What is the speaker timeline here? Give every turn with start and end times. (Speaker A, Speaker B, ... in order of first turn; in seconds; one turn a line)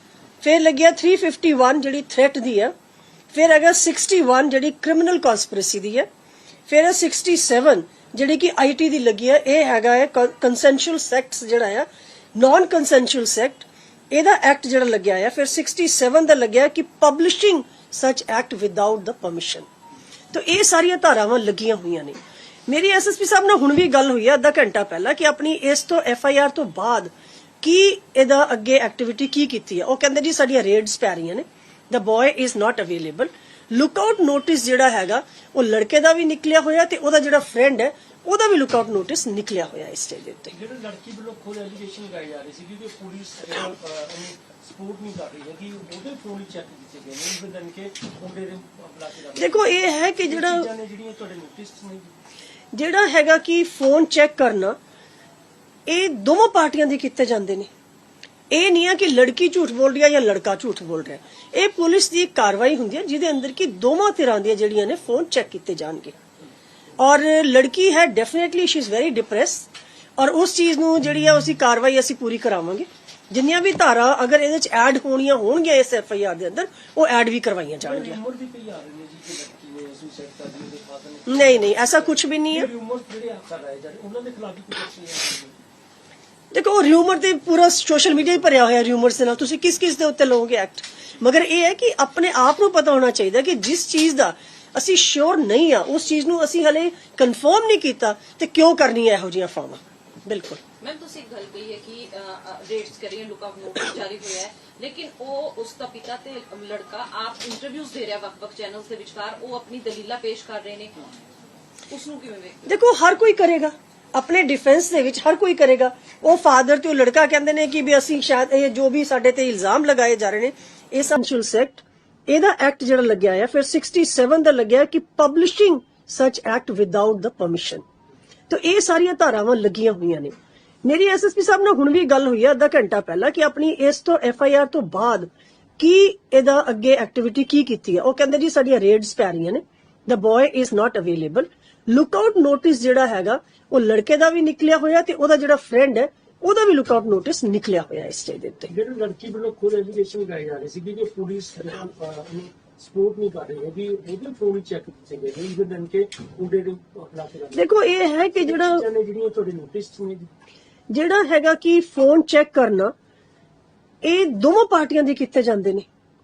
Speaker A: 0.4-2.7
Speaker A: 3.3-6.1
Speaker A: 6.7-19.7
Speaker A: 20.3-22.2
Speaker A: 22.7-40.5
Speaker B: 40.5-52.1
Speaker A: 49.4-50.7
Speaker A: 52.7-54.8
Speaker A: 55.9-57.7
Speaker A: 58.5-66.2
Speaker A: 67.0-78.2
Speaker B: 77.8-85.6
Speaker A: 81.3-82.7
Speaker A: 86.5-100.6
Speaker C: 100.8-111.1
Speaker C: 111.9-112.7
Speaker A: 112.7-127.8
Speaker A: 128.5-130.3
Speaker A: 130.8-148.7
Speaker B: 148.7-157.7
Speaker A: 157.5-158.8
Speaker B: 158.4-160.3
Speaker A: 160.9-162.9
Speaker A: 164.0-165.9